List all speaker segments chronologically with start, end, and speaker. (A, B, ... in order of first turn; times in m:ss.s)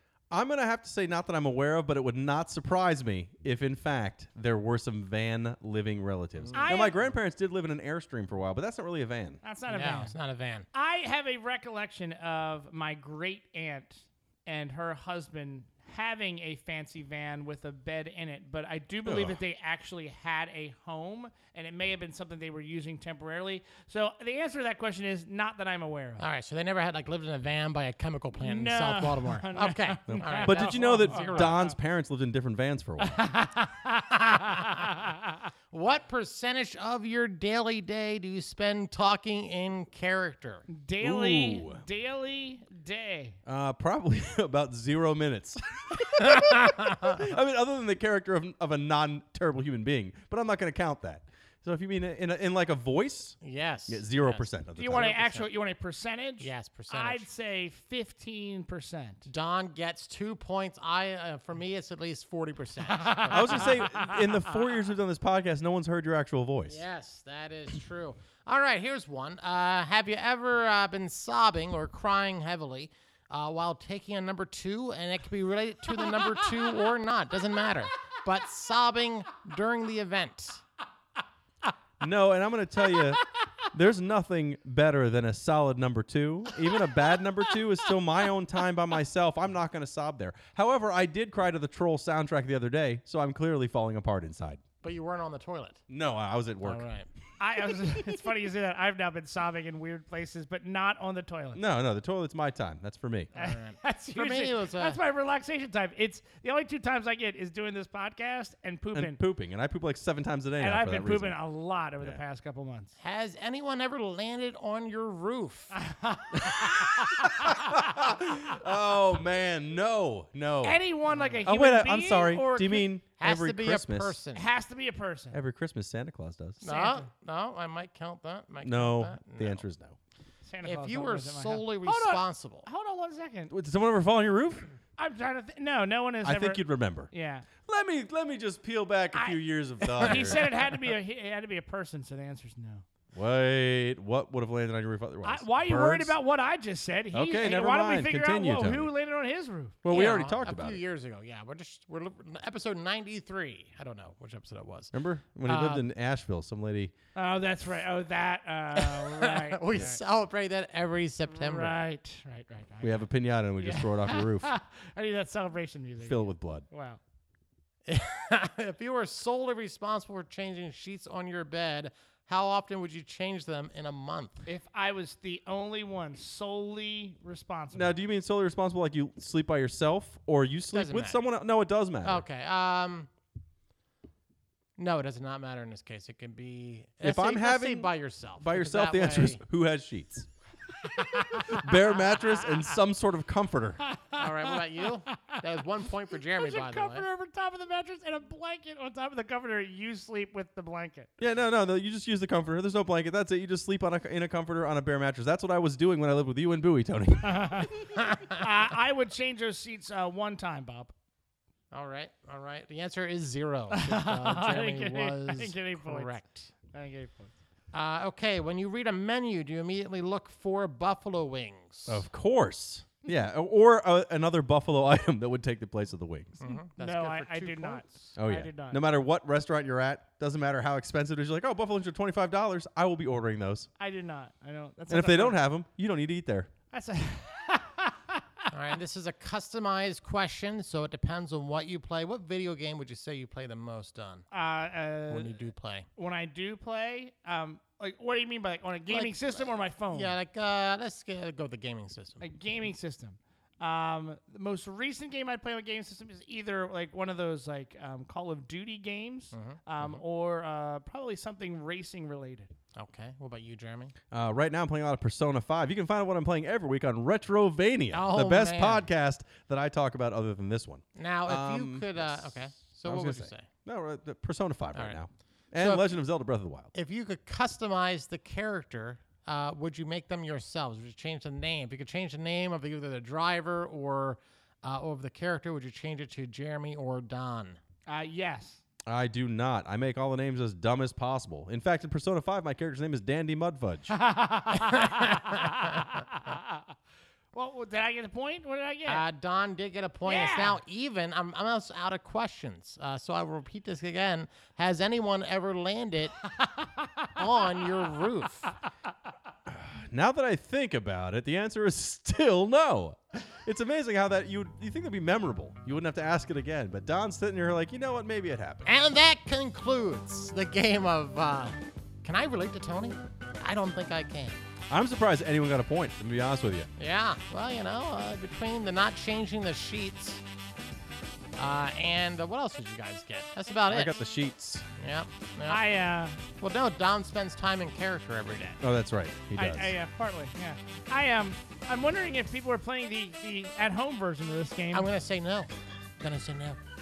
0:00.3-0:09.4 A
0:06.4-0:06.7 B
0:06.6-0:07.0 C
0:09.4-0:10.2 C
0:09.7-0:10.7 B
0:10.7-0:26.2 C
0:19.0-0:19.4 A
0:26.2-0:31.6 B
0:28.4-0:31.8 C
0:30.1-0:33.2 A
0:33.0-0:35.4 C
0:34.3-0:34.7 B
0:35.7-0:40.7 B
0:40.7-0:43.4 C
0:41.0-0:41.8 A
0:43.5-0:55.1 A
0:46.2-0:47.2 B
0:53.4-0:55.5 B
0:54.8-0:59.3 C
0:56.4-0:57.3 B
0:59.3-1:03.9 B
1:02.9-1:04.2 C
1:03.3-1:06.8 A
1:06.7-1:20.6 B
1:16.2-1:16.4 C
1:22.0-1:34.6 A
1:34.8-1:35.8 B
1:35.9-1:36.8 A
1:36.6-1:37.1 B
1:37.4-1:41.6 C
1:41.6-1:43.3 A
1:43.3-1:45.0 B
1:43.4-1:49.2 C
1:48.9-1:51.4 A
1:50.6-1:52.9 C
1:53.0-1:55.7 B
1:55.8-1:57.8 C
1:57.2-2:00.8 A
2:00.6-2:02.8 C
2:01.1-2:01.4 B
2:01.4-2:04.2 A
2:03.2-2:04.5 B
2:04.4-2:05.4 C
2:05.3-2:06.6 A
2:06.6-2:07.1 C
2:06.6-2:09.6 B
2:08.6-2:10.0 A
2:10.4-2:13.5 C
2:10.6-2:12.7 B
2:13.5-2:14.7 A
2:15.0-2:17.5 C
2:16.2-2:17.1 A
2:17.6-2:20.4 A
2:19.9-2:22.8 C
2:20.0-2:20.5 B
2:23.1-2:26.2 A
2:25.2-2:29.8 C
2:27.1-2:28.9 A
2:29.8-2:30.8 A
2:29.9-2:34.9 B
2:34.9-2:36.9 A
2:35.5-2:35.8 B
2:37.2-2:40.0 C
2:38.8-2:41.8 B
2:41.3-2:43.0 C
2:42.8-2:44.5 A
2:43.6-2:47.0 C
2:46.0-2:46.7 A
2:47.9-2:54.4 B
2:54.5-2:58.0 C
2:57.7-3:02.3 A
3:00.7-3:01.2 B
3:02.0-3:03.1 B
3:04.8-3:09.4 B
3:07.0-3:10.3 A
3:11.2-3:11.6 C
3:11.2-3:11.5 B
3:11.5-3:13.8 A
3:13.8-3:15.4 C
3:14.2-3:17.0 B
3:16.2-3:21.1 C
3:21.2-3:27.7 A
3:27.2-3:30.9 C
3:28.0-3:28.4 B
3:31.7-3:36.5 B
3:33.7-3:36.2 C
3:36.7-3:37.3 C
3:37.7-3:42.0 B
3:41.9-3:46.4 A
3:46.4-3:47.9 B
3:46.5-3:48.8 C
3:48.2-3:53.7 A
3:53.8-3:55.4 C
3:54.9-3:56.5 A
3:56.7-3:58.4 C
3:58.5-4:04.3 B
4:04.3-4:05.4 C
4:05.1-4:05.9 B
4:06.0-4:10.2 C
4:08.9-4:12.3 B
4:12.2-4:22.5 C
4:19.3-4:20.0 B
4:22.8-4:24.0 B
4:24.1-4:36.7 A
4:27.9-4:28.9 B
4:31.0-4:33.5 B
4:35.6-4:35.9 B
4:36.7-4:47.6 B
4:47.9-4:48.6 C
4:48.9-4:53.9 A
4:53.9-4:56.6 C
4:57.3-4:59.0 C
4:58.9-5:06.2 B
5:00.1-5:00.6 C
5:06.4-5:07.1 C
5:07.2-5:08.5 B
5:09.5-5:18.7 A
5:18.7-5:24.4 B
5:24.7-5:26.7 A
5:26.8-5:30.2 B
5:31.4-5:34.0 B
5:33.7-5:34.7 A
5:34.8-5:35.6 B
5:35.5-5:36.2 C
5:36.4-5:38.6 B
5:38.6-5:39.8 A
5:39.4-5:44.9 C
5:44.7-5:46.6 B